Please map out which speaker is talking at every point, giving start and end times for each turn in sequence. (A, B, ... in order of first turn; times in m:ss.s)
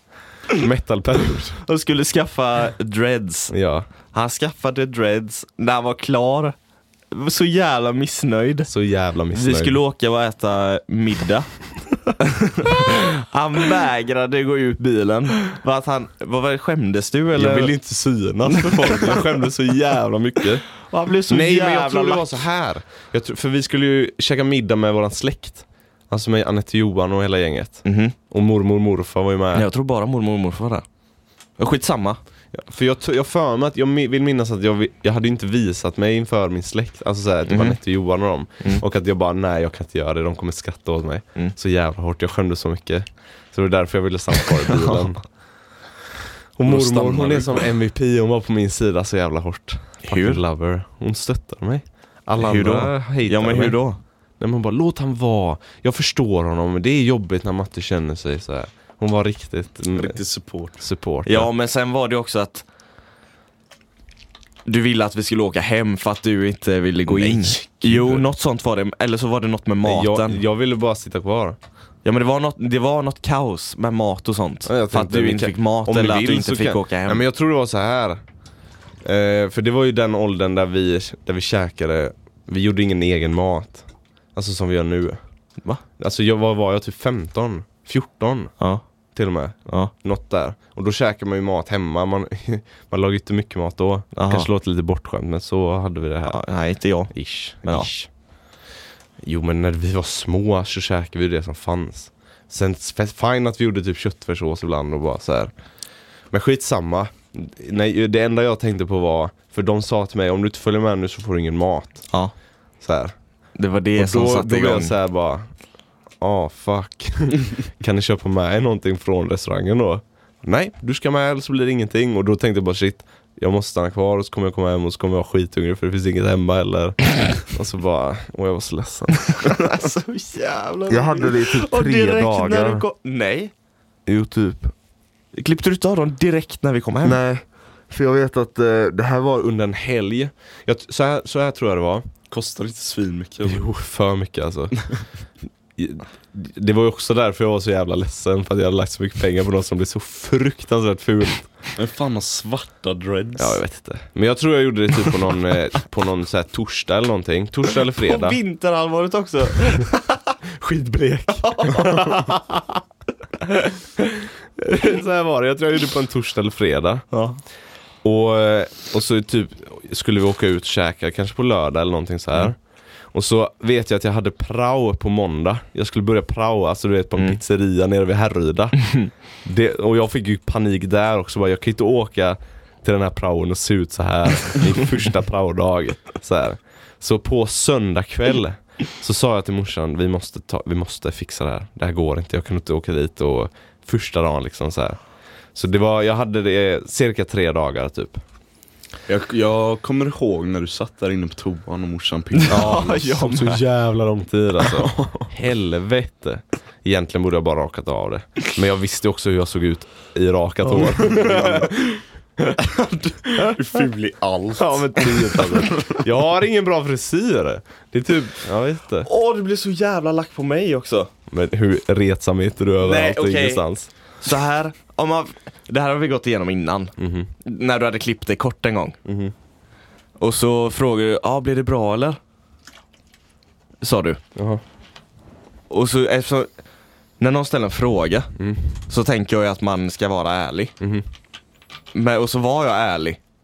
0:00.5-0:01.6 A
0:01.6-0:03.5 B
0:03.5-0:03.9 A
0:04.1-0:06.6 B
0:07.1-0:08.7 B
0:08.7-0:09.8 A
0:09.3-0:11.5 B
0:12.2-0:17.7 B
0:17.3-0:20.6 A
0:18.5-0:19.2 B
0:20.8-0:22.3 B
0:21.3-0:29.6 A
0:27.8-0:28.1 B
0:29.5-0:30.8 B
0:31.6-0:32.2 B
0:32.5-0:45.2 A
0:37.5-0:37.8 B
0:46.6-0:53.8 A
0:46.7-0:47.6 C
0:50.0-0:50.4 B
0:52.4-0:54.0 B
0:54.4-1:00.2 A
0:59.9-1:00.8 C
1:00.8-1:01.5 A
1:01.2-1:02.6 B
1:04.6-1:10.4 B
1:07.1-1:07.5 A
1:07.8-1:08.2 C
1:09.8-1:11.6 A
1:12.0-1:17.2 B
1:14.6-1:18.2 A
1:19.0-1:23.8 A
1:24.3-1:25.2 A
1:26.0-1:28.5 A
1:29.1-1:36.4 A
1:34.1-1:34.5 B
1:36.3-1:37.1 B
1:37.1-1:38.1 A
1:37.6-1:37.9 B
1:39.2-1:45.5 A
1:46.3-1:52.0 A
1:52.8-1:53.1 A
1:53.6-1:54.9 B
1:54.0-1:55.5 A
1:56.2-2:09.3 A
2:09.3-2:13.5 B
2:10.9-2:12.8 A
2:14.0-2:14.7 A
2:15.3-2:17.2 B
2:17.0-2:22.0 A
2:22.3-2:23.6 C
2:23.4-2:24.8 A
2:25.8-2:31.5 A
2:31.8-2:33.6 C
2:33.4-2:38.4 A
2:37.9-2:40.2 B
2:40.6-2:42.8 A
2:41.4-2:42.2 B
2:44.0-2:47.0 A
2:47.1-2:47.4 B
2:48.0-2:52.6 A
2:53.1-2:58.8 A
2:59.4-3:15.0 A
3:15.5-3:18.2 A
3:19.1-3:22.8 C
3:22.3-3:23.6 B
3:22.5-3:31.9 A
3:30.8-3:31.9 C
3:32.6-3:33.5 B
3:33.5-3:34.9 C
3:34.6-3:39.1 A
3:39.0-3:41.1 B
3:41.3-3:43.9 A
3:42.8-3:43.6 B
3:44.2-3:49.0 B
3:47.0-3:47.3 A
3:49.0-3:49.3 A
3:50.2-3:52.2 B
3:53.8-3:54.2 B
3:54.4-3:54.6 A
3:55.7-3:56.5 B
3:57.2-3:58.3 B
3:58.4-3:58.7 A
3:58.9-4:00.7 B
4:00.8-4:01.0 A
4:01.9-4:03.2 B